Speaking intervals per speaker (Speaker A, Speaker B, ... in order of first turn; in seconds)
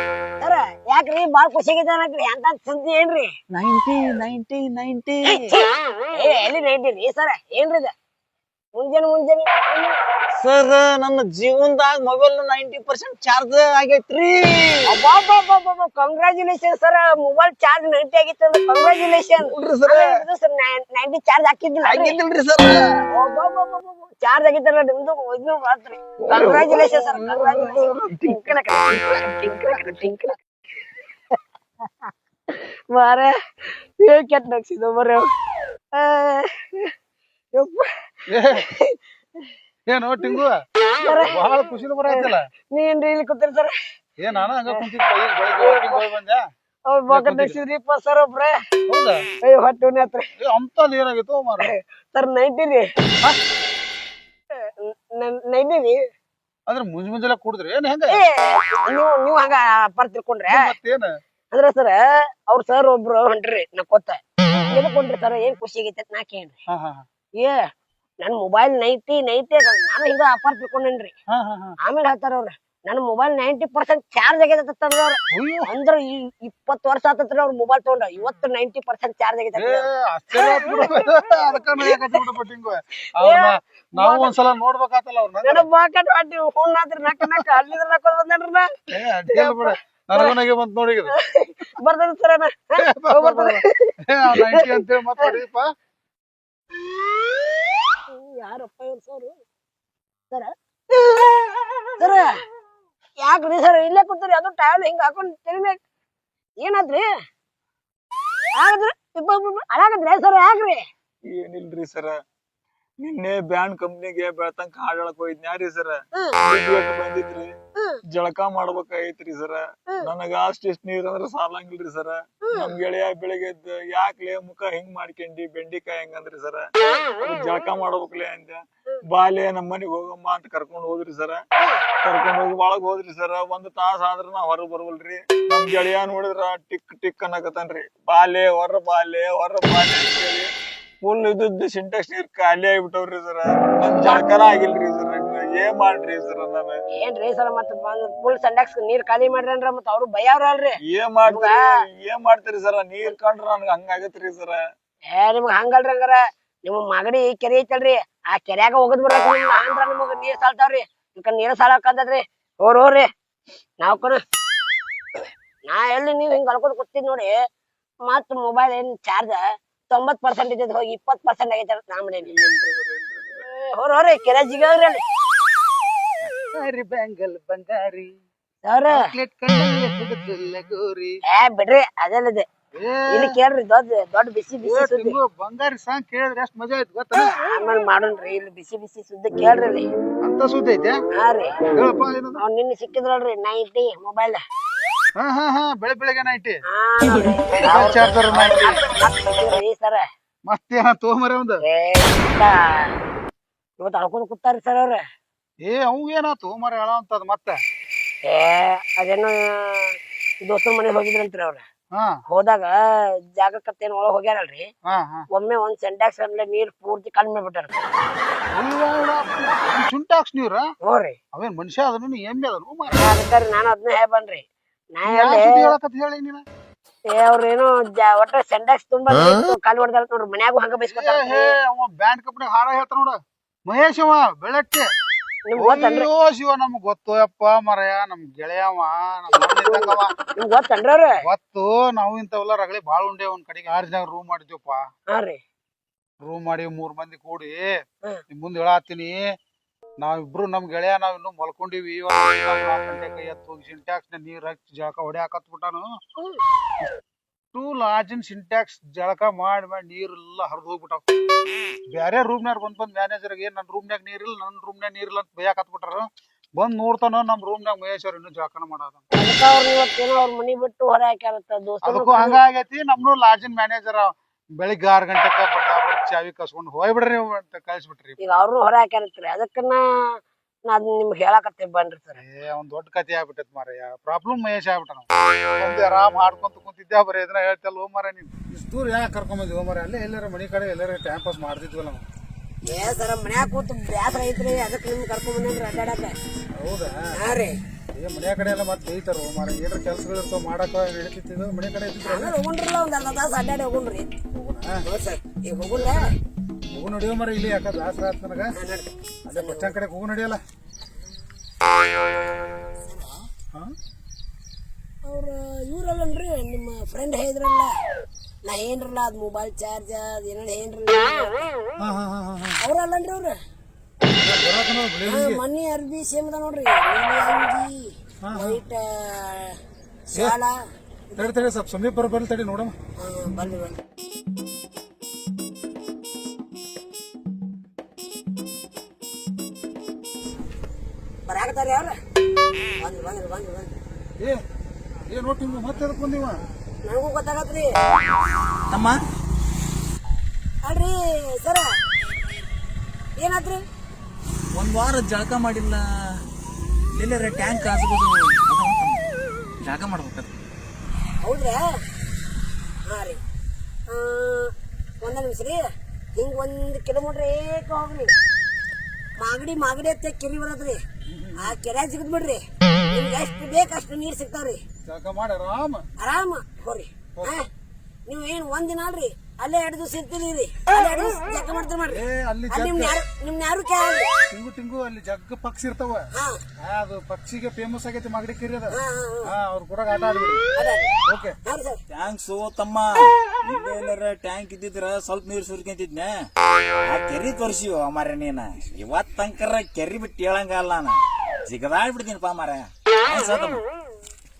Speaker A: 0.4-3.3, 5.3-7.9, 8.8-10.0, 14.9-22.2, 23.1-30.3, 32.5-33.3, 34.0-35.3, 36.0-36.9, 37.5-37.9, 38.5-39.0, 41.0-41.4, 42.1-43.7, 45.6-46.0, 46.9-48.6, 49.4-50.3, 51.7-52.9, 54.6-56.0, 58.1-60.7, 61.5-62.0, 62.5-64.2, 64.7-66.6, 68.2-71.1, 71.8-81.1, 81.8-82.2, 83.2-84.3, 85.4-88.7, 89.3-90.3, 91.2-95.3, 98.1-99.4, 102.0-102.3, 103.2-105.8, 106.6-107.0, 108.6-110.8, 122.4-122.7, 144.0-144.2, 146.9-151.6, 155.1-163.1, 163.8-164.2, 165.7-167.3, 168.1-172.3, 173.4-175.0, 178.6-179.1, 181.3-182.4, 183.1-185.2, 187.4-189.9, 191.2-191.6, 192.4-194.4, 196.7-200.0, 201.6-202.9, 203.8-205.0, 208.3-211.6, 212.3-214.7, 215.3-217.8, 220.8-221.2, 222.9-224.4, 224.9-225.7, 227.1-231.5, 235.5-236.1, 239.4-241.1, 245.1-245.4, 269.1-272.4, 278.2-279.8, 280.7-282.2, 292.7-296.1, 297.1-297.6, 302.1-304.1, 304.8-306.0, 308.5-309.7, 312.8-313.3, 315.1-317.7, 318.4-321.5, 322.6-323.4, 325.1-330.6, 331.1-331.4, 333.0-333.8, 341.3-341.9, 342.8-343.7, 346.9-347.7, 350.6-351.7, 353.2-353.6, 361.2-361.6, 362.9-363.2, 363.9-368.1, 369.2-370.8, 371.4-374.6, 376.0-377.5, 378.1-384.1, 386.1-386.4, 388.7-389.3, 390.6-390.9, 391.4-391.8
Speaker B: 3.5-5.5, 10.4-14.8, 19.4-20.2, 21.9-22.9, 26.3-28.8, 111.3-112.2, 113.0-117.5, 118.1-126.7, 127.2-131.4, 132.0-140.5, 141.0-146.8, 150.9-154.6, 172.3-173.4
Speaker C: 38.3-38.7, 39.9-40.6, 41.2-42.5, 44.2-46.4, 47.1-47.6, 48.9-49.2, 50.4-51.7, 56.7-58.2, 60.5-61.1, 64.5-64.8, 66.7-67.0, 71.3-71.8, 75.3-75.7, 79.6-85.7, 88.9-91.1, 92.8-95.7, 176.5-178.1, 178.9-181.2, 182.8-183.4, 184.6-187.4, 190.2-191.0, 191.7-192.4, 195.2-196.6, 197.6-198.8, 200.5-201.6, 205.6-207.6, 211.9-212.2, 214.9-215.2, 218.5-220.7, 221.3-223.1, 225.1-226.4, 230.9-234.9, 235.6-240.1, 241.2-244.8, 246.2-247.7, 248.3-249.2, 250.0-255.9, 257.5-261.0, 261.9-269.0, 271.8-278.2, 282.2-285.1, 285.6-292.1, 296.6-297.0, 298.0-302.4, 304.3-304.8, 306.7-308.5, 309.3-310.4, 321.8-322.6, 324.1-325.4, 328.2-328.6, 331.2-332.8, 345.1-346.4, 371.1-371.6, 374.9-375.9, 381.9-383.0, 384.3-386.1, 386.6-390.4, 391.1-391.4
Speaker D: 348.7-349.0, 354.5-355.8, 356.9-359.0, 359.6-360.3, 391.9-396.1, 396.9-403.6